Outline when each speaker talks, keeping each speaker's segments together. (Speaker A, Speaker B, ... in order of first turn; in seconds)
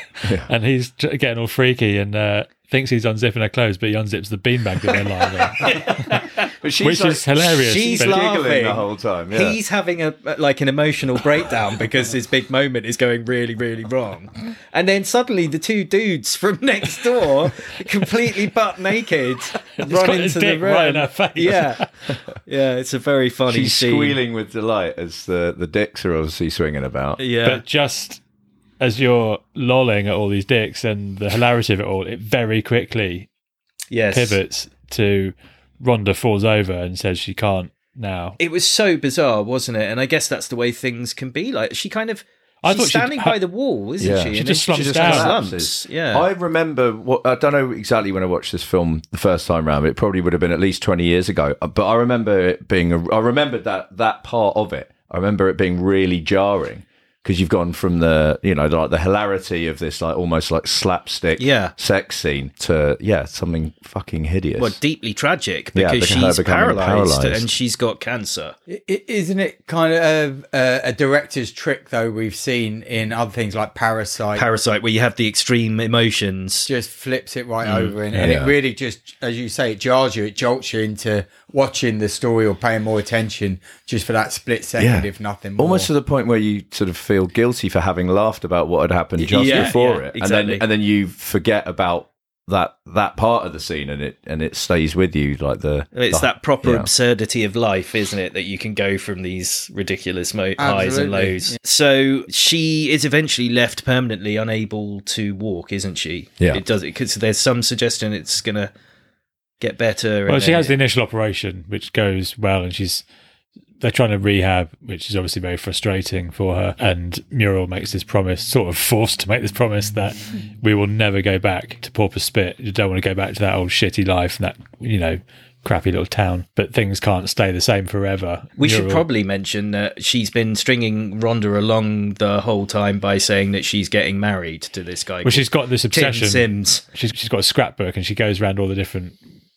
Speaker A: 0.1-6.0, 6.8-8.3, 19.8-21.9, 27.4-28.2, 28.8-33.3, 34.1-38.4, 42.6-43.4, 44.3-45.4, 89.4-89.7, 110.3-113.0, 113.8-129.0, 135.2-139.2
Speaker B: 0.2-0.5, 6.6-7.2, 7.9-9.6, 23.5-27.2, 44.0-64.8, 65.7-67.5, 78.2-78.5, 84.8-96.9
Speaker C: 5.4-6.4, 7.4-24.2, 27.2-27.6, 33.9-34.4, 38.4-46.2, 61.4-61.7, 64.6-68.5, 74.3-76.7, 77.6-78.0, 89.2-90.6, 95.9-108.7, 109.6-110.8, 128.6-136.8
Speaker D: 68.7-74.4, 76.7-85.9, 100.6-101.6